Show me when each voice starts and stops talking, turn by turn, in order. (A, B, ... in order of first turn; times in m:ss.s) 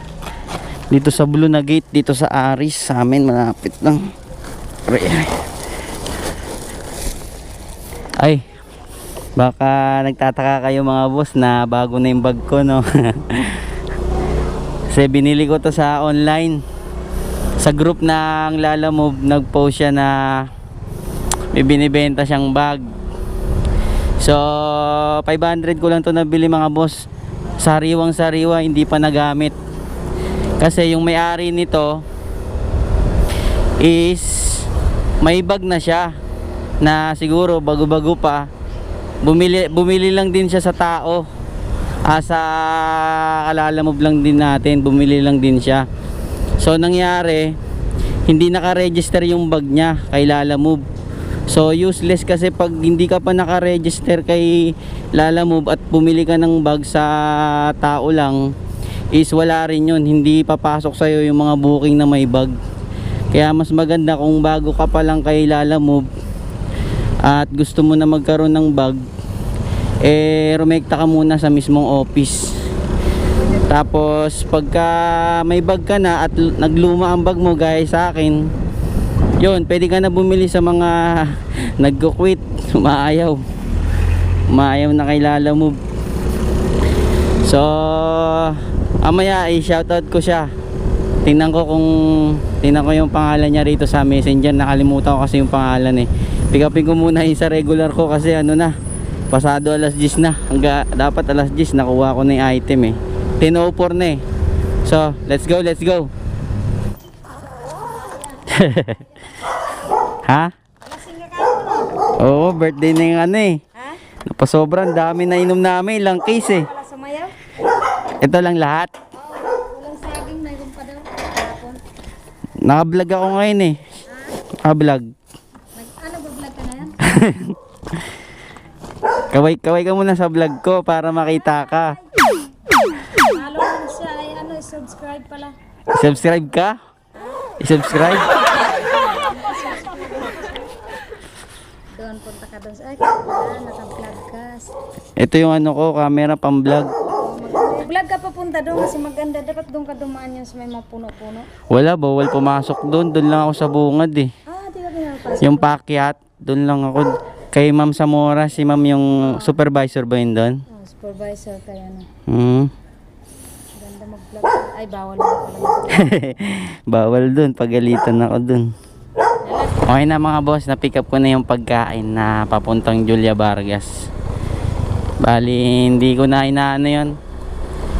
0:00.9-0:04.0 A
0:04.9-0:05.4 A
0:09.4-0:13.7 A
0:14.9-0:16.6 A
0:17.6-0:20.5 A
0:21.5-0:22.9 A
0:24.2-0:27.0 A
0:27.6-0:29.5 A
0:30.6-0:32.0 A
0:33.8-0:34.7 A
0:35.2-0:36.1 A
0:36.8-0:38.5 A
0:39.2-0:41.2 A
0:42.0-0:45.8 A
0:46.6-0:47.6 A
0:48.3-0:50.8 A
0:51.5-0:58.4 A
0:59.1-1:02.6 A
1:03.3-1:06.1 A
1:07.2-1:09.0 A
1:10.0-1:12.4 A
1:13.6-1:18.4 A
1:19.4-1:23.4 A
1:24.5-1:25.8 A
1:27.4-1:30.5 A
1:31.2-1:38.7 A
1:39.3-1:44.2 A
1:44.8-1:46.1 A
1:48.5-1:49.0 A
1:50.2-1:50.5 A
1:50.8-1:51.9 B
1:52.1-1:53.6 A
1:54.2-1:56.7 A
1:56.5-1:57.3 B
1:58.2-1:58.9 A
1:59.2-2:01.8 B
2:02.6-2:03.8 A
2:04.6-2:05.1 A
2:05.7-2:06.9 B
2:07.0-2:07.6 A
2:09.3-2:12.0 A
2:13.1-2:15.5 B
2:15.9-2:16.8 A
2:17.6-2:18.3 A
2:19.0-2:20.7 B
2:22.0-2:24.7 B
2:25.2-2:26.9 A
2:27.2-2:31.5 B
2:31.7-2:34.3 A
2:34.5-2:35.4 B
2:35.4-2:40.6 A
2:40.7-2:42.1 B
2:42.3-2:42.7 A
2:43.8-2:46.0 B
2:45.9-2:48.7 A
2:49.8-2:54.1 A
2:55.2-2:57.1 A